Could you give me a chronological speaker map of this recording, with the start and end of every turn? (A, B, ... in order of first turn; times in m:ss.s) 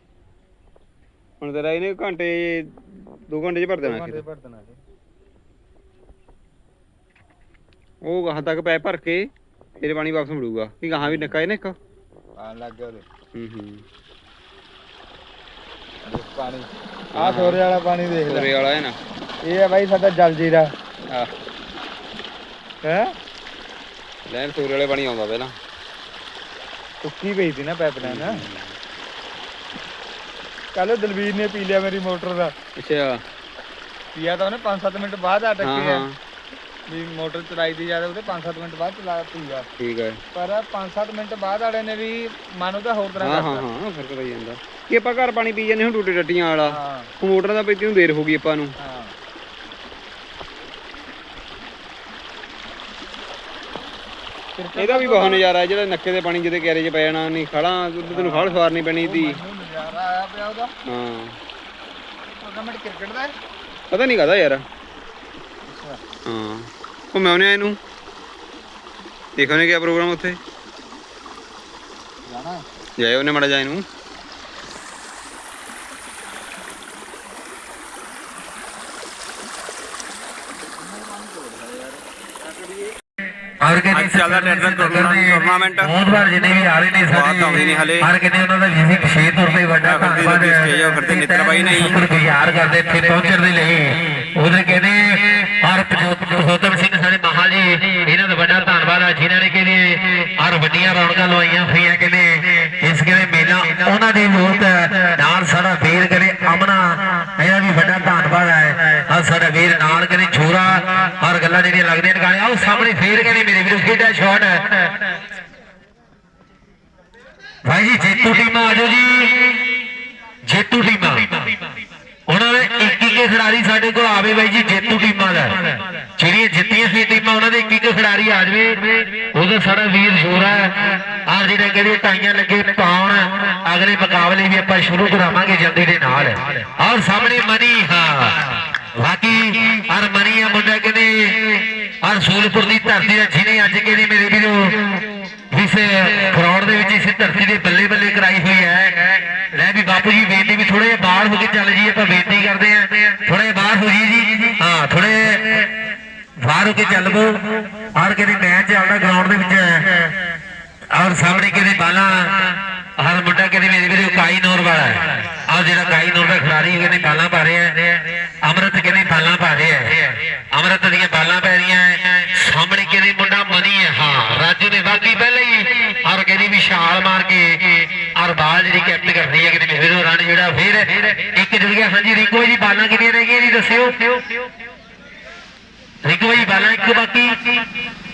0:01.4-0:04.2 A
0:03.8-0:04.8 B
0:08.0-0:11.8 A
0:11.0-0:11.4 B
0:12.4-0:13.0 B
0:13.3-0:13.8 A
0:16.0-0:18.5 B
0:17.2-0:17.6 A
0:18.3-0:19.0 A
0:19.4-0:20.7 B
0:22.8-0:23.1 B
0:24.2-0:25.5 A
0:27.0-0:28.4 B
0:28.0-0:28.8 A
0:30.8-0:32.5 B
0:32.8-0:33.2 A
0:34.2-0:36.1 B
0:35.6-0:36.1 A
0:36.9-0:39.7 B
0:39.8-0:40.2 A
0:40.3-0:43.7 B
0:43.2-0:48.7 A
0:46.7-0:47.1 B
0:48.8-0:49.1 B
0:54.6-0:55.5 B
0:54.8-0:59.4 A
0:58.1-1:00.7 B
1:00.9-1:01.4 A
1:02.3-1:03.4 B
1:03.9-1:04.6 A
1:05.7-1:06.0 B
1:06.3-1:07.8 A
1:09.4-1:10.4 A
1:12.3-1:12.6 B
1:13.0-1:13.8 A
1:20.8-1:22.0 B
1:23.6-1:55.1 C
1:23.9-1:26.0 A
1:27.1-1:28.1 A
1:29.8-1:32.0 A
1:57.6-1:59.6 C
2:00.4-2:01.6 C
2:02.3-2:35.7 C
2:36.4-2:40.1 C
2:40.9-3:04.5 C
3:06.0-3:07.7 C